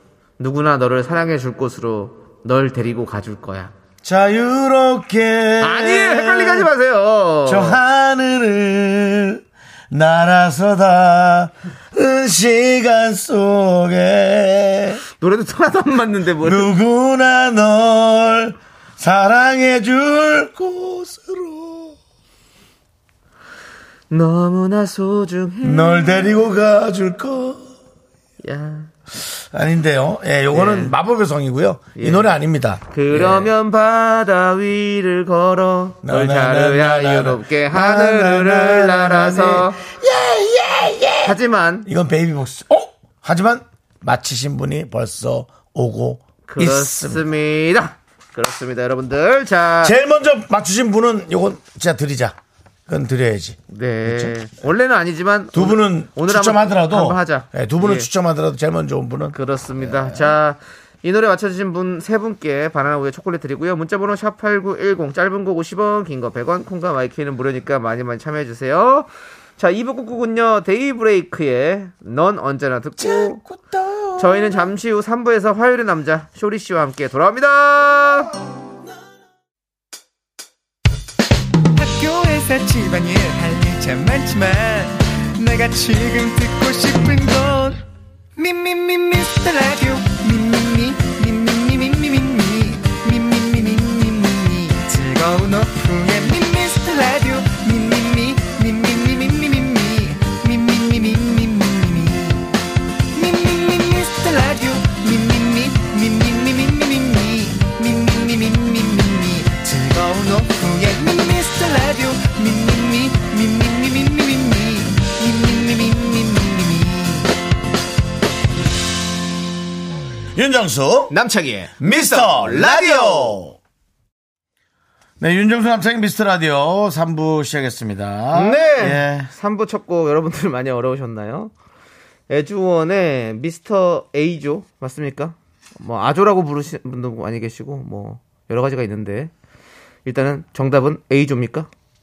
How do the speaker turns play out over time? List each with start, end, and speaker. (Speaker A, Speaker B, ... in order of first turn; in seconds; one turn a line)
Speaker A: 0.4-3.7
Speaker B: 4.0-6.7
Speaker A: 5.6-7.8
Speaker B: 7.5-15.0
Speaker A: 15.2-16.7
Speaker B: 16.4-22.0
Speaker A: 24.1-26.4
Speaker B: 25.6-27.7
Speaker A: 28.4-28.9
Speaker B: 29.2-33.5
Speaker A: 30.5-30.9
Speaker A: 32.0-32.4
Speaker A: 32.9-39.9
Speaker B: 36.0-47.2
Speaker A: 41.2-41.9
Speaker A: 46.5-50.0
Speaker B: 49.8-52.4
Speaker B: 52.9-54.4
Speaker A: 53.7-58.1
Speaker B: 55.5-60.3
Speaker A: 59.3-73.4
Speaker B: 73.0-74.7
Speaker A: 74.2-78.3
Speaker C: 81.7-87.8
Speaker C: 88.4-102.5
Speaker C: 103.1-117.3
Speaker B: 120.3-121.2
Speaker A: 121.1-123.4
Speaker B: 121.8-123.6
Speaker B: 125.2-129.3
Speaker A: 128.3-131.5
Speaker A: 132.3-139.3
Speaker A: 140.1-141.7